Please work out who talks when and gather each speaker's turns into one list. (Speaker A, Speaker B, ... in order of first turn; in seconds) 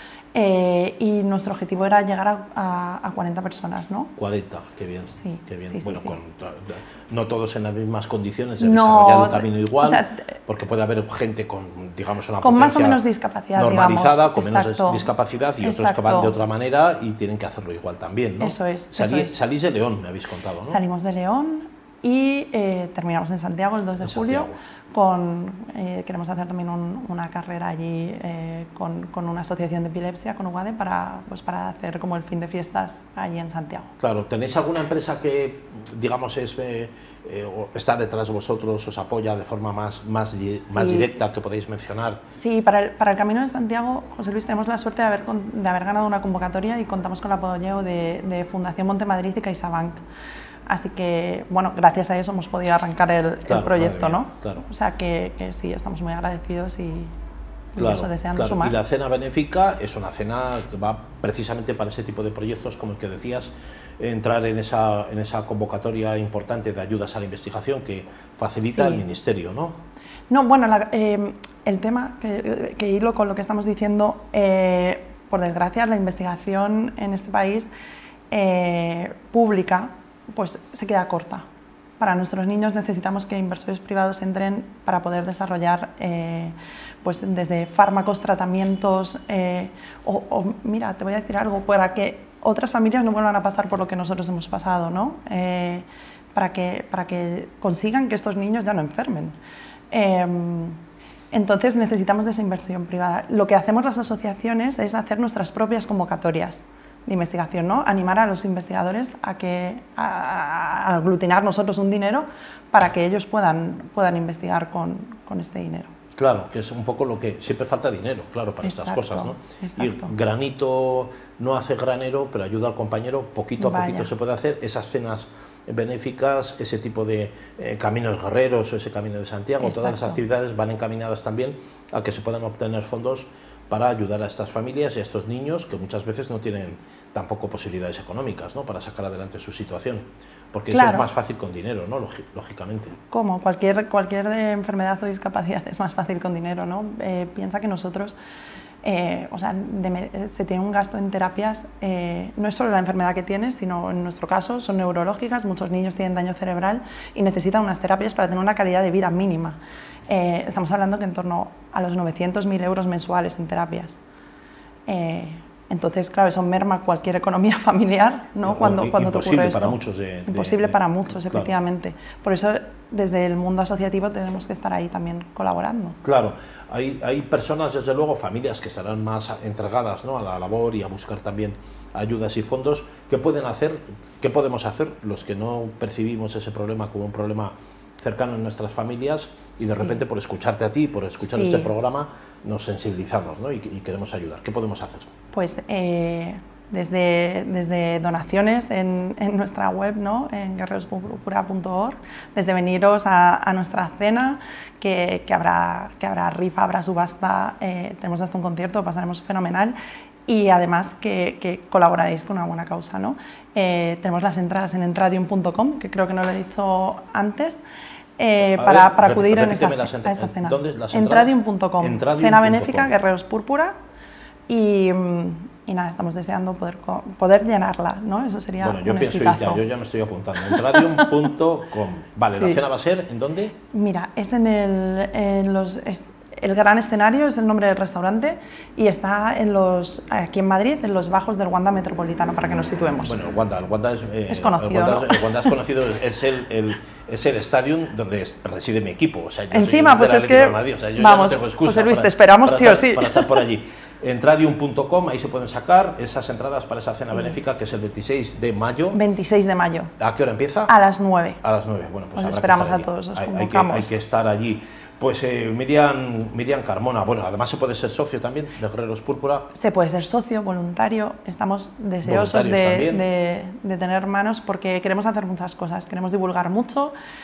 Speaker A: 0.3-4.1, 5.1-6.2, 8.6-10.2, 12.4-16.3, 18.4-19.3, 20.6-33.9, 40.7-41.1, 42.3-50.0, 50.7-57.1, 57.7-58.8, 68.6-69.0, 70.3-77.7, 78.3-81.4, 82.0-99.4, 99.9-100.8, 101.3-115.9, 118.6-120.1, 123.6-124.1, 129.6-130.2, 140.7-141.1, 143.1-148.2, 148.8-164.0, 164.9-176.0, 189.7-190.0, 191.2-191.7, 195.3-209.8, 210.3-217.6, 218.2-223.8, 224.5-229.6, 230.4-231.2, 232.3-232.6, 233.7-243.1, 244.3-245.5, 249.5-253.4, 257.1-257.3, 258.9-259.9, 260.7-261.4, 262.1-263.9, 269.5-276.9
Speaker B: 4.2-13.0, 13.5-20.8, 24.0-24.6, 34.0-42.2, 53.5-54.6, 57.8-69.8, 116.2-142.9, 168.4-171.5, 176.0-195.1, 218.4-222.9, 228.6-233.6, 243.0-259.0, 260.0-260.7, 261.4-269.5, 272.0-273.0